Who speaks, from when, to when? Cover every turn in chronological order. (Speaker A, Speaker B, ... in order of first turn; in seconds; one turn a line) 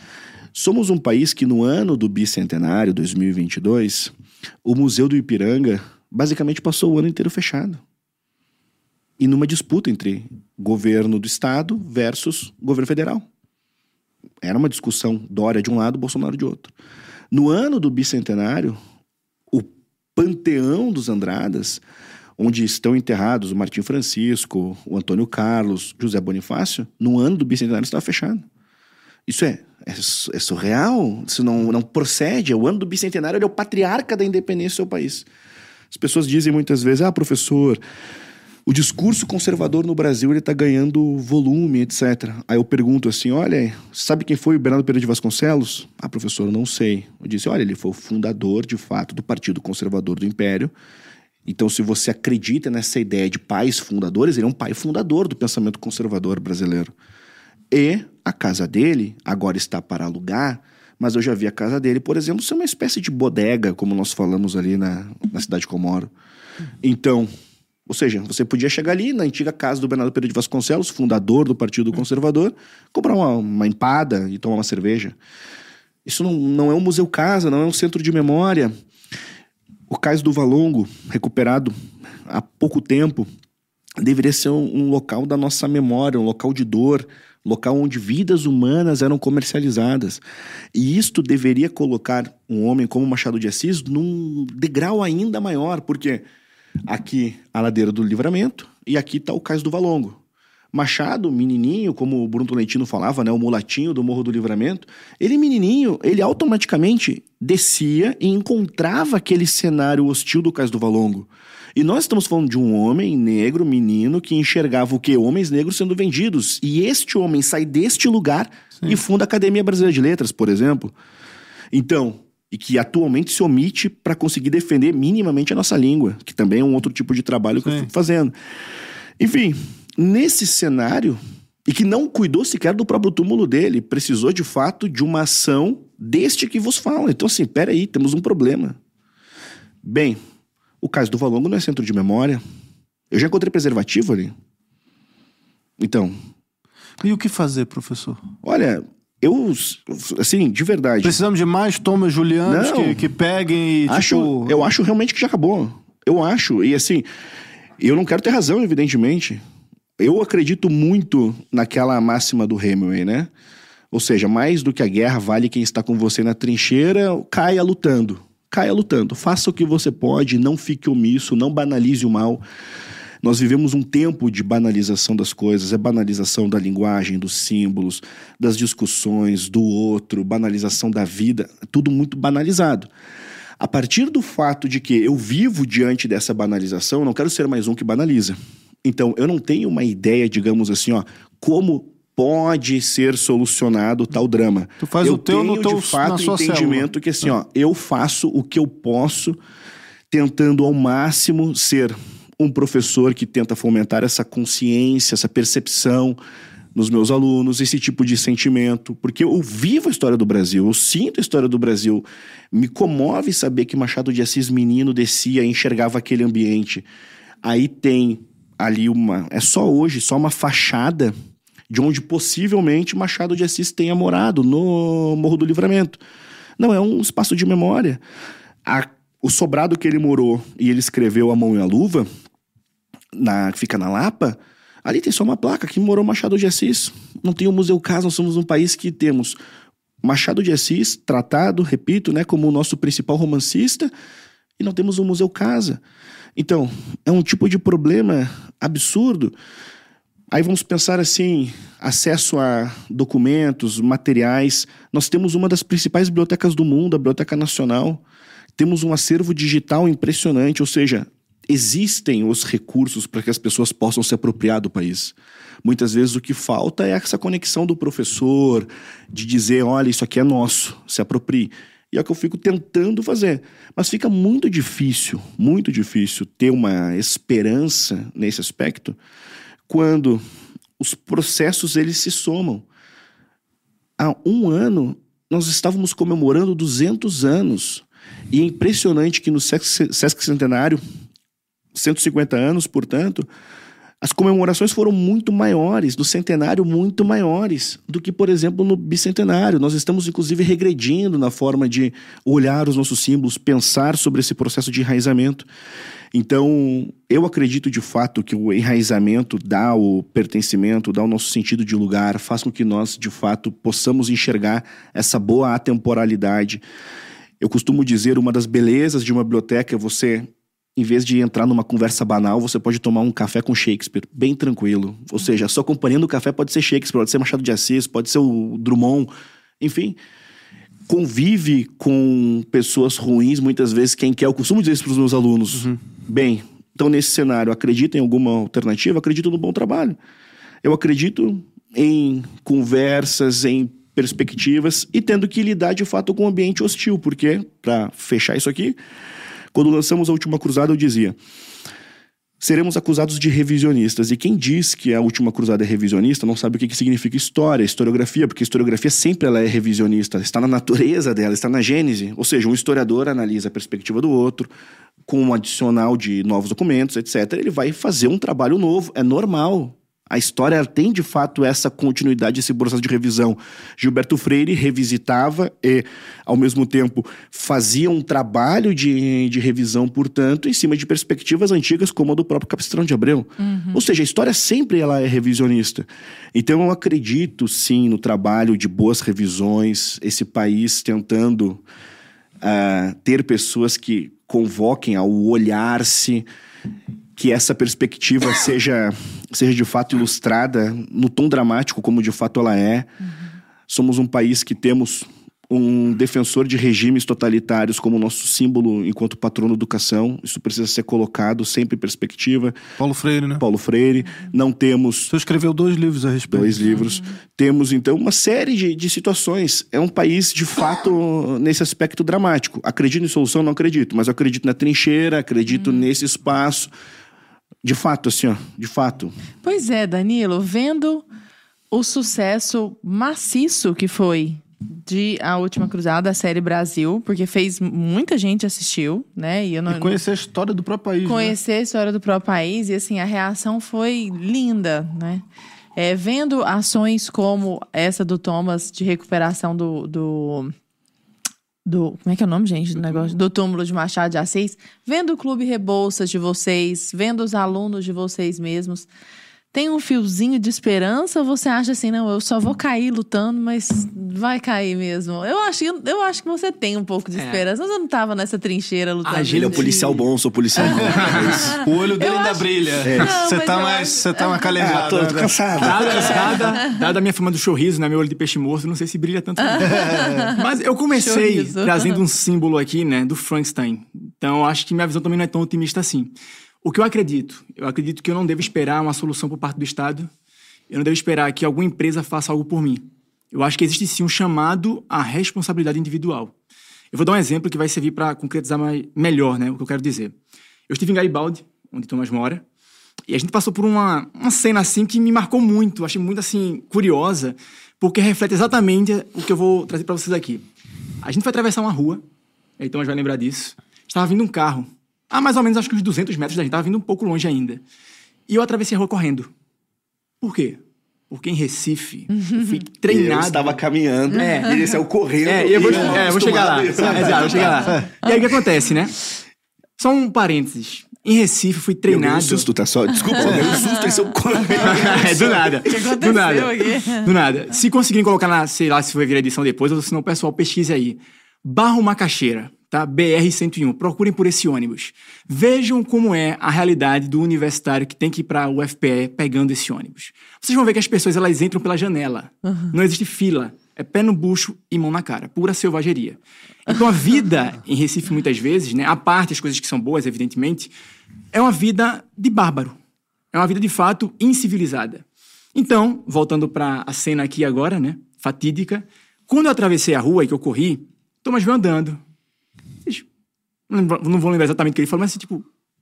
Speaker A: 0.5-4.1
Speaker A: 4.6-7.8
Speaker A: 9.2-13.2
Speaker A: 14.4-16.7
Speaker A: 17.3-18.8
Speaker A: 19.5-21.8
Speaker A: 22.4-28.4
Speaker A: 29.3-35.2
Speaker A: 35.9-37.8
Speaker A: 38.6-50.7
Speaker A: 51.5-56.9
Speaker A: 57.7-66.1
Speaker A: 66.8-67.3
Speaker A: 67.9-75.2
Speaker A: 76.0-78.7
Speaker A: 79.9-81.7
Speaker A: 82.2-83.3
Speaker A: 84.0-90.2
Speaker A: 90.7-96.2
Speaker A: 96.9-100.2
Speaker A: 100.7-120.9
Speaker A: 121.7-128.3
Speaker B: 127.6-127.9
Speaker A: 129.2-138.8
Speaker A: 139.8-140.2
Speaker A: 140.8-142.4
Speaker A: 143.1-144.3
Speaker A: 145.8-146.1
Speaker B: 147.0-148.2
Speaker A: 148.4-151.2
Speaker B: 151.0-154.6
Speaker A: 152.4-153.1
Speaker A: 153.9-157.1
Speaker A: 157.8-159.4
Speaker A: 160.0-163.3
Speaker A: 163.9-172.4
Speaker A: 173.2-182.9
Speaker A: 183.6-199.4
Speaker B: 194.8-196.9
Speaker A: 200.1-206.2
Speaker A: 206.7-216.8
Speaker A: 217.4-221.1
Speaker A: 221.7-226.0
Speaker A: 226.6-228.0
Speaker A: 228.6-232.1
Speaker A: 233.1-239.4
Speaker A: 240.0-243.9
Speaker A: 244.6-245.8
Speaker A: 246.3-249.3
Speaker A: 250.3-258.0
Speaker A: 258.6-279.0
Speaker A: 279.7-280.2
Speaker A: 280.8-282.6
Speaker A: 284.0-290.8
Speaker A: 291.7-293.3
Speaker A: 294.0-305.5
Speaker A: 306.1-316.6
Speaker A: 317.4-330.0
Speaker A: 330.9-340.0
Speaker A: 340.6-348.8
Speaker A: 349.5-351.2
Speaker A: 352.4-364.5
Speaker A: 365.0-391.6
Speaker C: 383.4-383.8
Speaker A: 392.4-396.3
Speaker A: 397.1-402.9
Speaker A: 403.7-412.6
Speaker B: 412.8-413.4
Speaker A: 413.4-415.1
Speaker B: 415.1-416.9
Speaker A: 416.3-426.7
Speaker C: 416.8-417.1
Speaker A: 427.6-429.1
Speaker C: 429.4-431.1
Speaker C: 431.7-440.0
Speaker B: 439.7-441.4
Speaker C: 441.0-445.2
Speaker C: 445.8-450.5
Speaker C: 451.6-458.9
Speaker C: 459.5-470.0
Speaker D: 467.1-467.4
Speaker D: 469.0-469.9
Speaker A: 469.3-471.6
Speaker B: 470.6-476.3
Speaker D: 470.9-471.3
Speaker C: 471.4-474.7
Speaker A: 472.8-473.1
Speaker A: 474.6-476.4
Speaker D: 475.6-486.1
Speaker C: 476.3-476.7
Speaker C: 479.4-480.4
Speaker B: 479.6-480.3
Speaker C: 480.9-482.0
Speaker D: 486.6-490.1
Speaker D: 490.7-496.3
Speaker D: 496.9-500.1
Speaker D: 500.7-502.4
Speaker D: 503.1-510.4
Speaker D: 511.0-512.0
Speaker D: 512.6-517.6
Speaker D: 518.3-519.3
Speaker D: 520.2-523.6
Speaker C: 522.1-522.6
Speaker A: 522.9-527.8
Speaker D: 524.1-524.6
Speaker D: 525.2-529.0
Speaker D: 529.8-532.5
Speaker A: 531.9-535.6
Speaker C: 533.1-533.7
Speaker D: 534.6-560.7
Speaker C: 534.6-534.9
Speaker C: 535.6-537.1
Speaker D: 561.3-562.8
Speaker D: 563.3-565.0
Speaker D: 565.5-572.0
Speaker D: 573.7-575.5